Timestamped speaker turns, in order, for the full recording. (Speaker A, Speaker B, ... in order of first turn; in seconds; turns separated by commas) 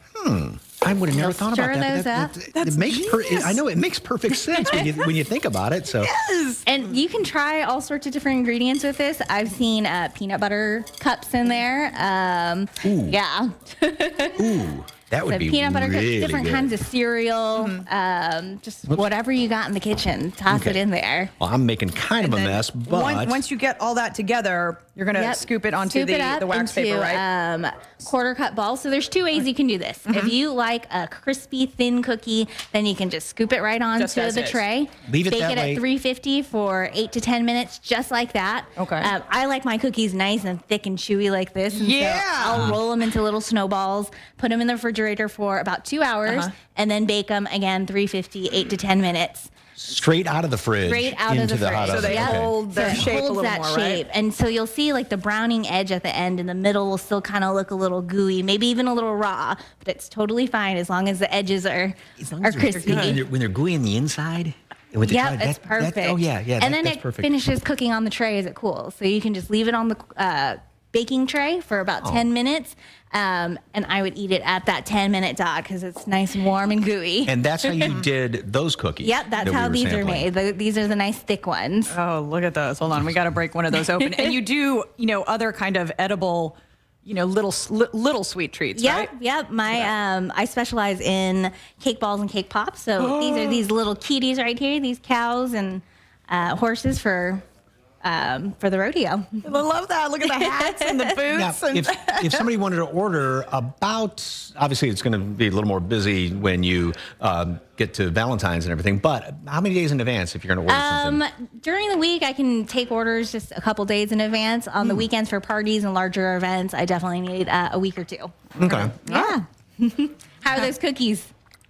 Speaker A: 0.2-6.1, Speaker B: 1.1-2.4, Speaker C: 2.5-3.6, Speaker C: 4.5-5.0, Speaker C: 6.0-6.7, Speaker B: 6.7-14.5, Speaker A: 12.8-13.2, Speaker A: 14.4-16.7, Speaker B: 15.2-21.3, Speaker C: 17.6-17.9, Speaker A: 20.5-20.8, Speaker A: 21.4-23.4, Speaker C: 22.2-27.2, Speaker B: 25.1-49.5, Speaker C: 30.1-30.3, Speaker C: 34.0-34.6, Speaker A: 35.1-35.8, Speaker C: 38.8-39.1, Speaker C: 41.7-42.8, Speaker C: 46.2-46.5, Speaker A: 49.8-53.1, Speaker B: 50.8-63.2, Speaker C: 51.9-54.0, Speaker A: 62.2-67.4, Speaker C: 62.7-63.2, Speaker B: 65.0-77.9, Speaker A: 77.3-80.3, Speaker B: 79.0-82.0, Speaker C: 81.9-89.1, Speaker B: 88.8-97.4, Speaker C: 93.0-93.6, Speaker B: 98.0-99.6, Speaker C: 99.4-102.2, Speaker B: 100.4-101.0, Speaker A: 101.3-111.2, Speaker B: 110.7-118.4, Speaker C: 118.6-119.4, Speaker A: 118.6-118.9, Speaker B: 119.0-121.3